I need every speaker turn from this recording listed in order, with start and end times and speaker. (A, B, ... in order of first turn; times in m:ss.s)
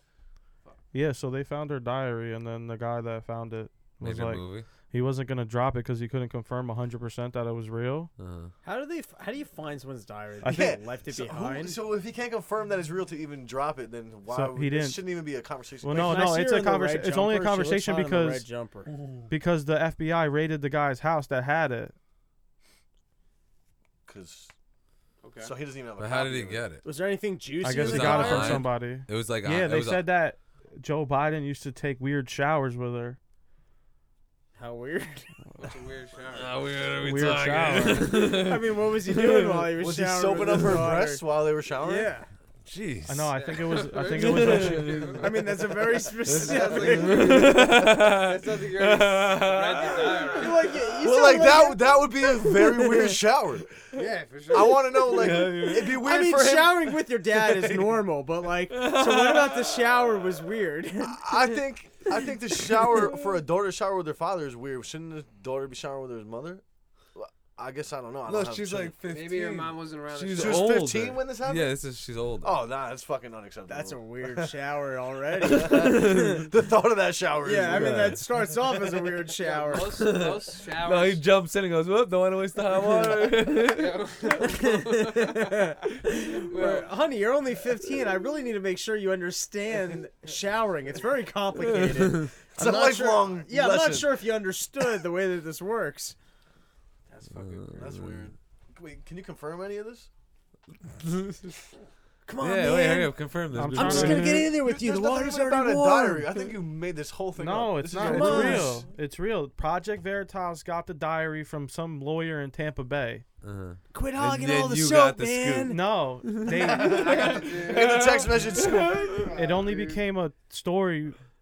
0:00.9-0:08.1 A
0:04.0-0:04.7 B
0:08.2-0:08.5 B
0:08.6-0:11.8 C
0:10.4-0:10.8 A
0:10.4-0:16.3 D
0:14.3-0:15.0 A
0:15.8-0:18.4 A
0:15.9-0:18.9 C
0:19.3-0:21.9 A
0:24.1-0:24.5 D
0:25.2-0:25.6 E
0:25.4-0:26.6 D
0:26.0-0:26.8 B
0:26.8-0:28.7 C
0:27.6-0:33.2 A
0:27.6-0:30.1 B
0:34.6-0:35.3 C
0:35.6-0:36.5 E
0:36.3-0:39.7 B
0:37.0-0:38.3 A
0:38.0-0:41.2 C
0:39.8-0:42.1 D
0:40.5-0:40.8 B
0:41.8-0:42.3 C
0:42.6-0:43.6 B
0:43.1-0:45.2 A
0:43.3-0:45.3 E
0:44.1-0:50.4 B
0:45.2-0:47.7 C
0:46.4-0:50.6 E
0:50.3-0:53.1 C
0:51.0-0:53.8 D
0:53.9-0:54.8 E
0:54.5-0:57.0 D
0:55.1-0:56.0 B
0:55.8-1:01.6 C
0:58.7-1:00.4 B
1:01.0-1:06.6 D
1:02.9-1:03.3 B
1:07.1-1:09.0 D
1:08.2-1:12.5 B
1:09.1-1:10.8 E
1:10.3-1:11.8 D
1:12.4-1:14.6 D
1:13.7-1:16.5 C
1:15.4-1:16.5 B
1:15.4-1:18.3 D
1:17.4-1:20.1 C
1:17.6-1:18.2 B
1:19.4-1:21.2 E
1:19.7-1:24.5 B
1:23.6-1:26.9 E
1:24.4-1:36.2 C
1:31.6-1:32.3 B
1:32.6-1:34.3 D
1:37.1-1:37.9 E
1:37.3-1:38.3 B
1:37.8-1:40.1 D
1:41.1-1:41.4 B
1:42.2-1:46.6 C
1:42.4-1:44.4 B
1:43.5-1:44.5 A
1:44.5-1:48.8 D
1:47.4-1:53.2 A
1:47.9-1:48.8 C
1:53.4-1:59.3 B
1:53.9-1:55.8 C
1:55.7-1:57.3 A
1:56.8-1:58.0 E
1:56.8-2:00.0 D
1:59.4-2:01.2 A